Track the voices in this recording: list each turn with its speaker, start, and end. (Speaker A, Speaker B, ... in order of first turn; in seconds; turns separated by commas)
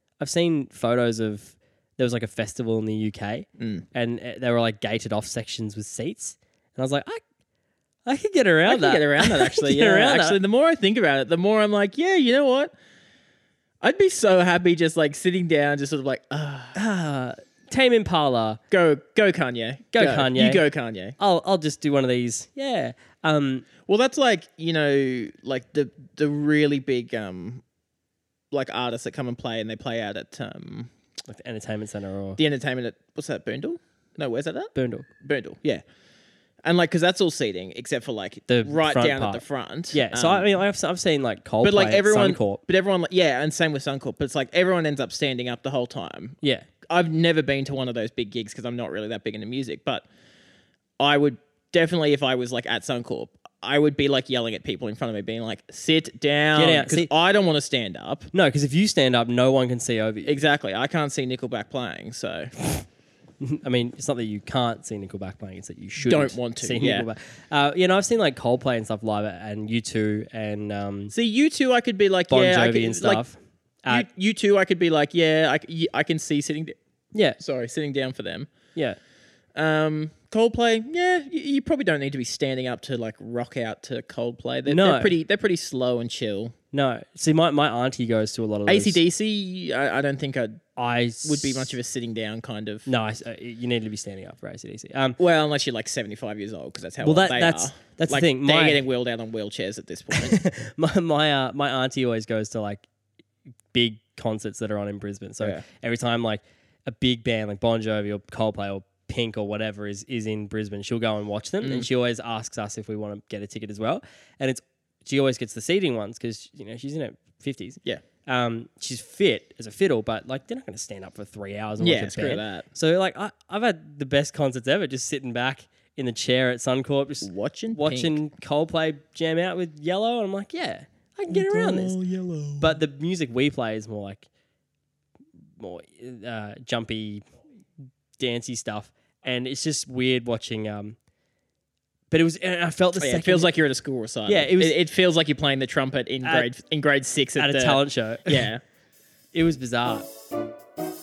Speaker A: 0.2-7.2, Speaker B: 3.6-3.8, Speaker A: 8.0-10.4, Speaker B: 8.7-12.7, Speaker B: 13.8-16.8, Speaker A: 16.7-18.6, Speaker B: 18.7-21.2, Speaker A: 19.9-20.6, Speaker A: 21.2-23.6, Speaker B: 23.9-27.6, Speaker B: 28.5-30.9, Speaker A: 31.3-32.4, Speaker B: 32.4-35.8, Speaker A: 34.7-35.1, Speaker B: 36.6-40.5, Speaker A: 38.5-42.6, Speaker B: 41.6-50.0, Speaker A: 46.4-46.7, Speaker B: 51.0-58.3, Speaker A: 56.5-57.1, Speaker A: 58.3-60.3, Speaker B: 60.2-62.5, Speaker A: 63.4-71.1, Speaker B: 66.0-67.1, Speaker B: 71.1-73.2, Speaker A: 72.3-74.0, Speaker B: 73.9-76.8, Speaker B: 77.4-78.5, Speaker B: 79.5-86.5, Speaker A: 84.7-85.1, Speaker A: 86.7-89.0, Speaker B: 88.7-90.6, Speaker A: 90.8-91.8, Speaker B: 91.2-92.9, Speaker A: 92.9-95.2, Speaker B: 95.2-100.4, Speaker A: 97.0-98.8, Speaker A: 100.1-102.8, Speaker A: 103.7-132.0, Speaker B: 111.6-111.9, Speaker B: 121.8-122.7, Speaker B: 127.2-128.2, Speaker B: 131.3-132.8, Speaker A: 132.6-134.3, Speaker A: 135.6-137.2, Speaker A: 138.2-141.0, Speaker A: 142.1-143.5, Speaker B: 143.0-148.6, Speaker A: 144.3-144.8, Speaker A: 147.4-148.5, Speaker A: 149.3-150.1